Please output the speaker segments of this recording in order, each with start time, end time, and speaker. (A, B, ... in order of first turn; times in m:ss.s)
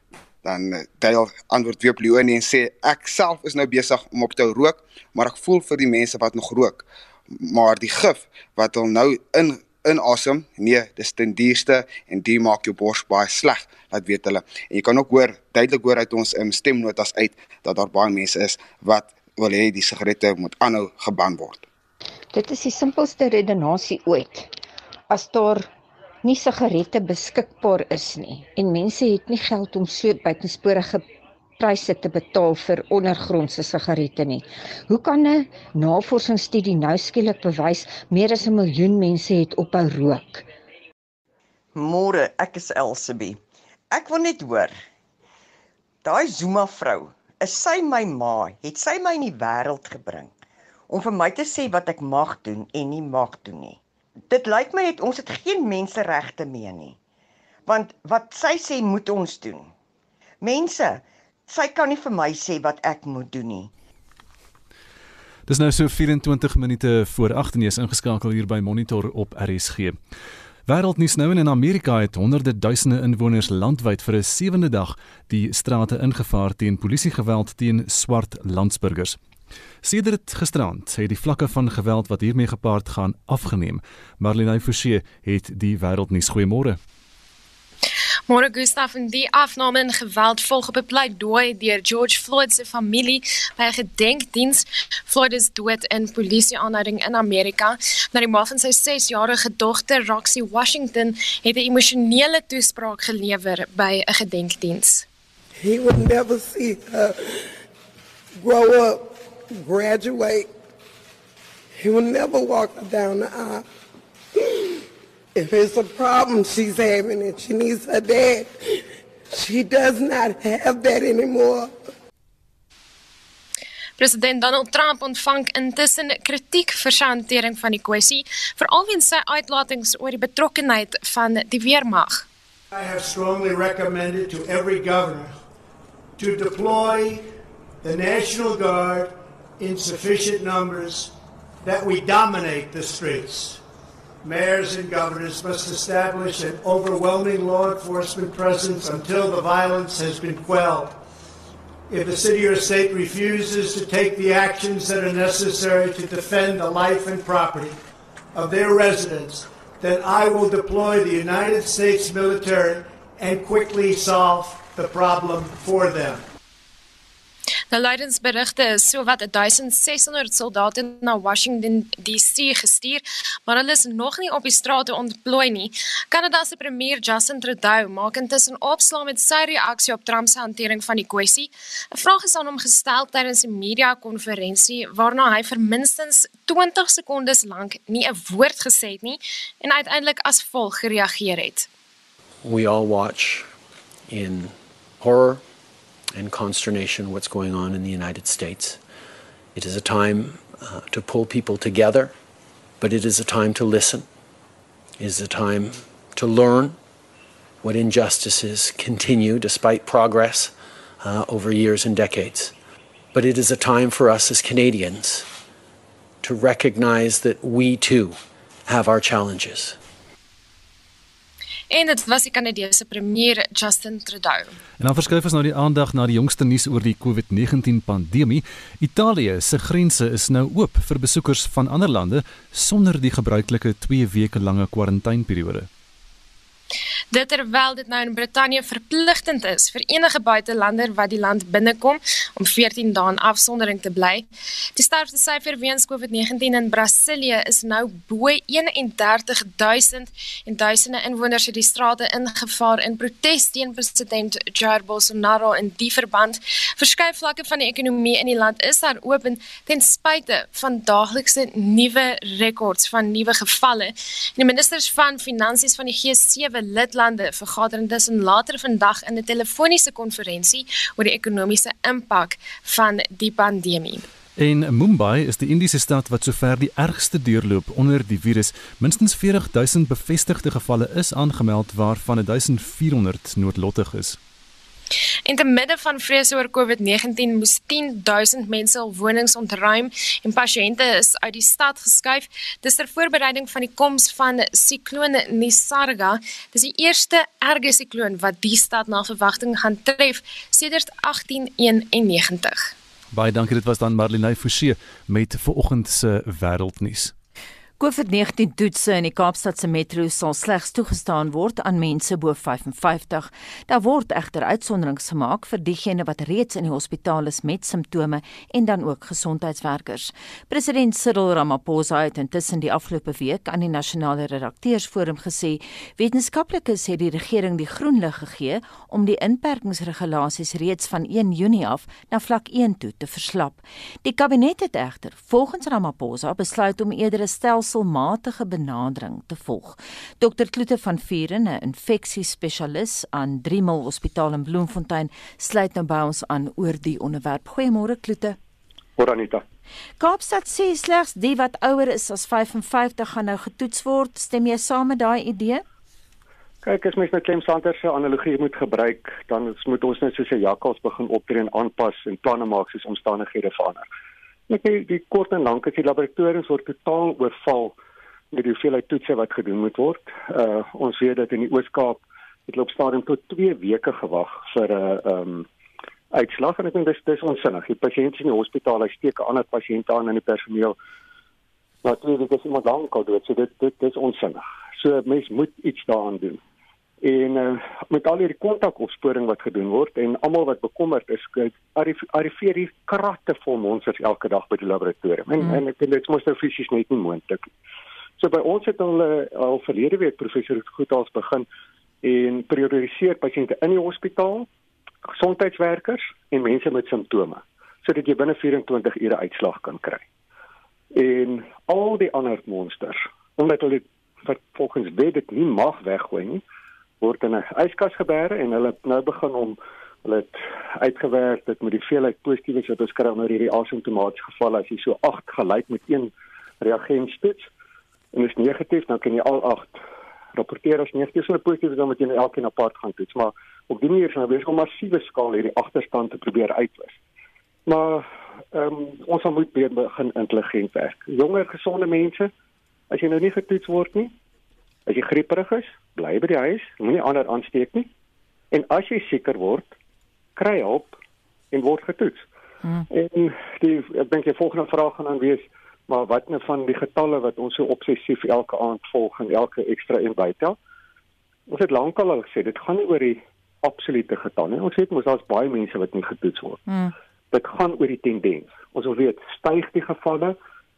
0:00.4-0:21.6 A
0:22.3-0:24.5 B
0:25.1-0:25.7 B
0:26.2-0:31.0 B
0:31.6-0:40.4 B
0:41.7-0:44.8 C
0:46.0-0:50.3 C
0:50.9-0:57.0 C
0:57.6-0:59.7 C
1:00.4-1:03.7 C
1:05.5-1:10.0 D
1:10.7-1:19.2 D
1:19.8-1:26.8 D
1:28.3-1:45.0 E
1:45.6-1:47.5 F
1:48.4-1:50.5 F
1:51.8-1:53.6 F
1:54.4-1:54.8 F
1:55.4-2:01.8 F
2:04.0-2:12.2 E
2:12.7-2:15.4 G
2:16.2-2:17.3 G
2:17.8-2:23.6 G
2:24.2-2:31.0 G
2:31.9-2:37.8 G
2:38.3-2:46.2 G
2:47.7-3:11.7 E
3:12.4-3:13.5 H
3:14.1-3:15.4 H
3:16.1-3:18.8 H
3:19.5-3:22.1 H
3:22.8-3:24.1 H
3:25.0-3:26.8 H
3:27.6-3:32.5 H
3:33.1-3:35.3 H
3:36.2-3:39.8 H
3:41.7-3:44.6 E
3:44.8-3:55.7 D
3:57.1-4:34.0 E
4:34.4-4:44.2 D
4:45.2-5:02.7 E
5:03.1-5:07.1 D
5:07.8-5:48.4 I
5:49.0-5:49.4 J
5:50.0-5:55.6 I
5:56.6-6:03.9 J
6:04.5-6:07.7 J
6:08.3-6:15.5 J
6:16.1-6:20.8 J
6:21.8-6:26.4 J
6:27.0-6:37.5 J
6:38.2-6:41.5 J
6:42.0-6:44.5 J
6:45.1-6:50.0 J
6:50.9-6:56.4 J
6:57.0-7:07.5 J
7:08.1-7:09.8 J
7:10.3-7:17.0 J
7:17.7-7:22.3 J
7:22.9-7:24.1 J
7:24.9-7:27.9 J
7:28.5-7:29.7 J
7:30.4-7:31.0 J
7:31.5-7:32.2 J
7:32.9-7:40.6 J
7:41.5-7:46.6 J
7:46.7-7:46.9 I
7:47.3-7:50.4 J